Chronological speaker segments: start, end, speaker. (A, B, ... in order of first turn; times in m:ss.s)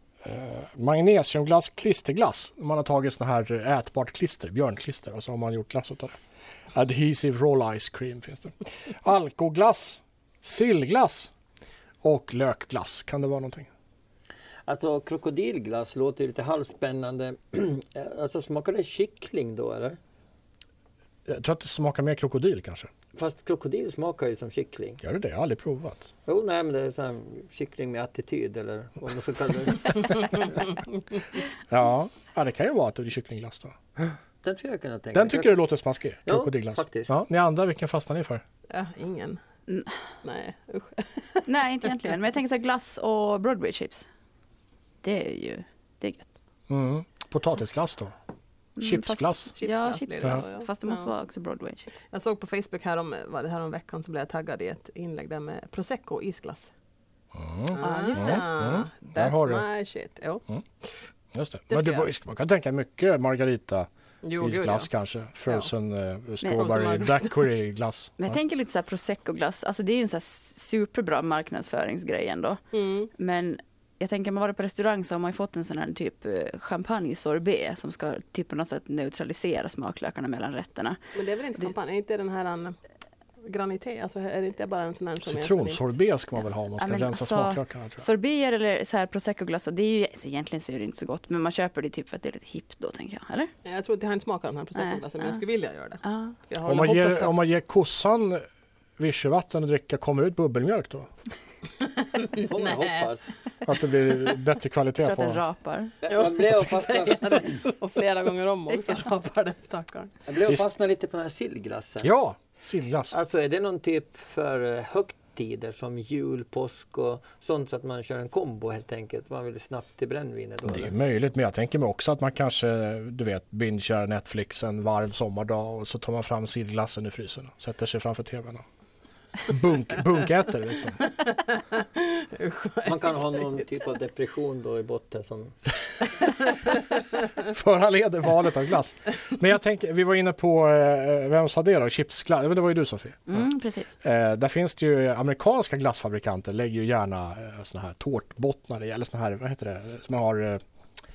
0:00.2-0:06.2 A
0:06.7-0:11.3 A
0:12.0-0:13.7 A
0:14.7-0:20.0 B
0:21.3-0:22.9 A
0:23.2-0:25.0 B
0:25.0-0:26.1 A
0:26.3-0:30.6 B
0:31.7-0:33.8 A
0:34.4-0:35.6 B
0:35.1-0:38.4 A
0:36.3-0:37.1 B
0:38.7-0:39.4 C
0:39.7-0:39.9 D
0:40.2-0:41.9 C
0:41.5-0:44.1 D
0:45.0-0:46.4 D
0:46.7-0:48.2 A
0:48.8-0:51.9 D
0:48.8-0:49.5 A
0:49.6-0:51.1 C
0:52.1-0:56.7 C
0:57.3-0:59.7 A
0:57.7-1:01.1 C
0:57.8-0:58.5 D
1:01.3-1:03.9 A
1:01.7-1:02.1 C
1:04.2-1:04.9 C
1:04.4-1:08.4 A
1:05.5-1:05.7 C
1:06.5-1:07.5 C
1:08.2-1:12.6 D
1:12.7-1:13.1 C
1:13.1-1:21.0 D
1:21.1-1:22.8 C
1:23.4-1:26.0 C
1:25.2-1:28.1 A
1:26.7-1:33.5 D
1:33.6-1:37.4 C
1:34.8-1:35.4 D
1:36.0-1:36.4 D
1:36.6-1:38.4 A
1:39.0-1:41.1 A
1:42.1-1:43.1 C
1:42.4-1:43.3 B
1:43.6-1:45.4 A
1:45.0-1:46.0 D
1:46.0-1:47.6 B
1:46.1-1:50.2 C
1:50.3-1:52.1 B
1:52.0-1:53.2 A
1:53.1-2:00.9 B
2:00.6-2:08.6 A
2:09.5-2:11.0 A
2:11.1-2:13.6 C
2:12.8-2:15.8 B
2:16.5-2:16.8 C
2:17.4-2:23.5 A
2:23.3-2:24.0 D
2:24.0-2:30.6 A